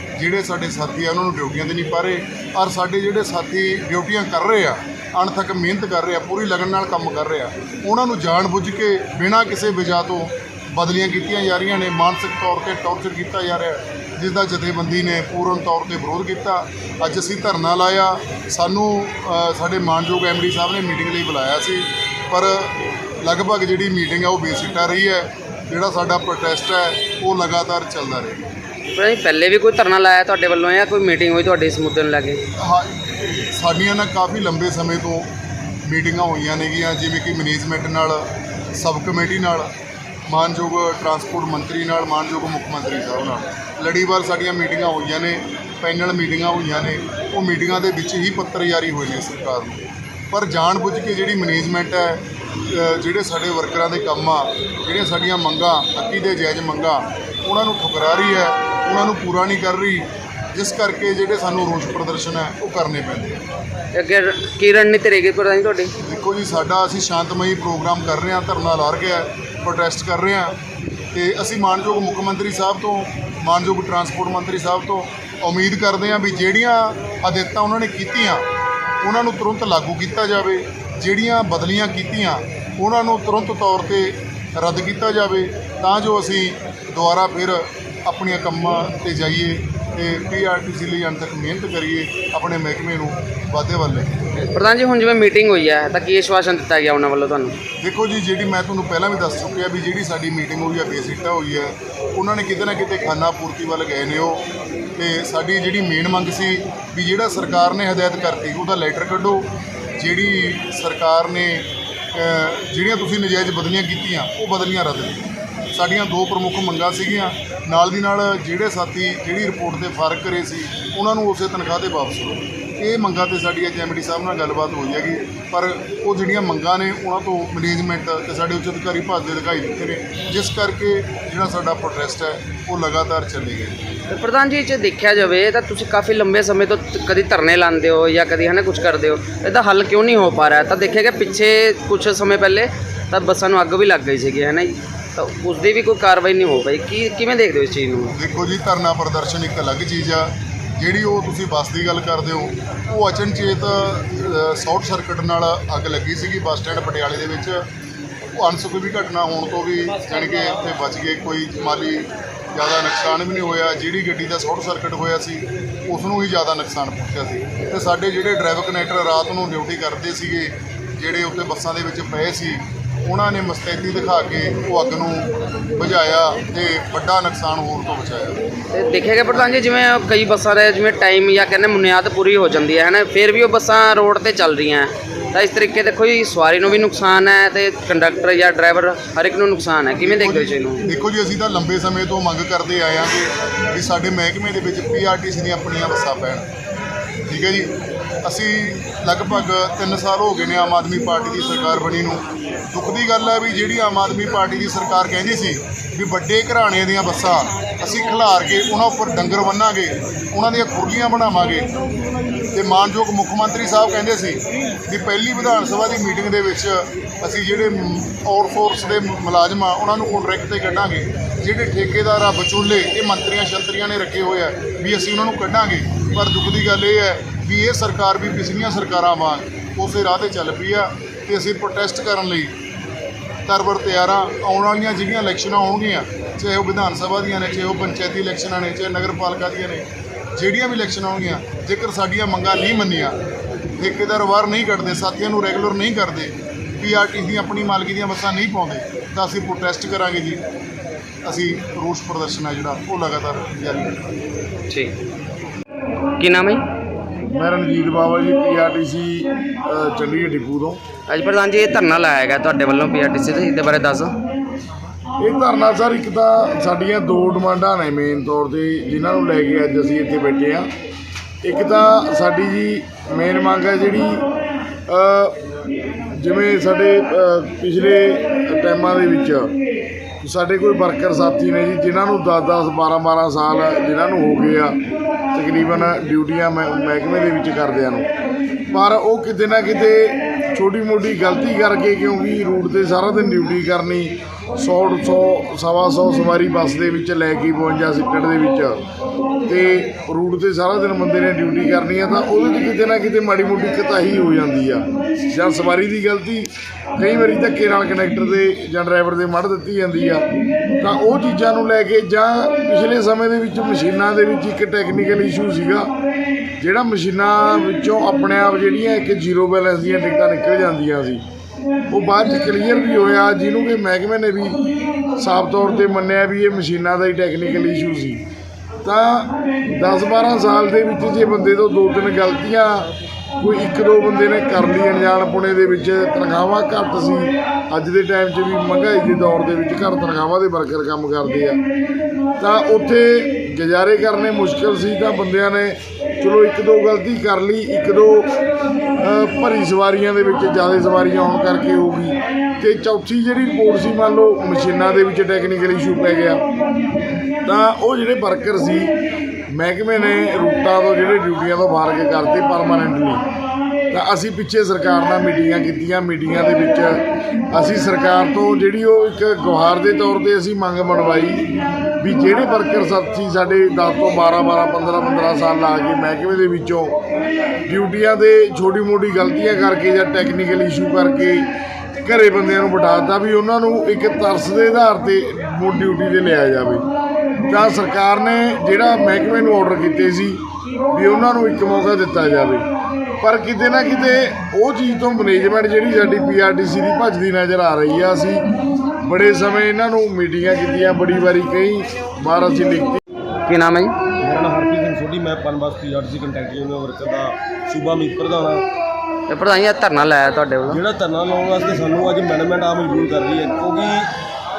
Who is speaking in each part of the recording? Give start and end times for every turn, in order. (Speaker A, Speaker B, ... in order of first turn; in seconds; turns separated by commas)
Speaker A: 0.1-28.4, Speaker B: 28.9-32.4, Speaker A: 32.6-35.3, Speaker A: 35.9-38.2, Speaker A: 38.8-39.7, Speaker A: 40.3-63.4, Speaker B: 63.9-65.9, Speaker A: 66.0-70.5, Speaker A: 71.1-78.4, Speaker A: 79.0-94.1, Speaker B: 94.5-97.5, Speaker A: 97.8-104.5, Speaker A: 105.0-109.4, Speaker A: 110.0-115.2, Speaker A: 115.7-133.8, Speaker B: 134.1-148.1, Speaker A: 148.1-157.6, Speaker A: 158.4-178.4, Speaker B: 178.7-190.8, Speaker A: 179.3-179.7, Speaker A: 190.0-196.5, Speaker A: 197.3-197.7, Speaker A: 198.2-211.7, Speaker A: 212.5-232.5, Speaker A: 233.5-239.8, Speaker A: 240.3-243.2, Speaker A: 243.8-250.4, Speaker A: 251.2-254.2, Speaker B: 256.2-256.6, Speaker C: 257.3-260.8, Speaker B: 261.1-264.1, Speaker C: 265.2-270.7, Speaker C: 271.4-274.2, Speaker C: 274.9-275.3, Speaker C: 276.1-279.5, Speaker C: 280.2-284.8, Speaker C: 285.3-288.1, Speaker C: 288.7-298.8, Speaker C: 299.5-310.2, Speaker C: 310.8-315.9, Speaker C: 316.6-321.2, Speaker C: 321.9-324.6, Speaker C: 325.2-328.2, Speaker C: 328.8-332.9, Speaker C: 333.4-341.6, Speaker C: 342.4-348.3, Speaker C: 349.0-356.4, Speaker C: 357.4-358.9, Speaker C: 359.5-363.2, Speaker C: 363.9-367.0, Speaker C: 367.5-371.4, Speaker C: 372.0-376.9, Speaker C: 377.7-381.5, Speaker C: 382.0-386.8, Speaker C: 387.5-390.4, Speaker C: 390.9-392.6, Speaker C: 393.2-398.4, Speaker C: 399.0-403.0, Speaker B: 403.5-403.9, Speaker D: 404.2-408.6, Speaker B: 409.3-410.8, Speaker D: 410.7-414.1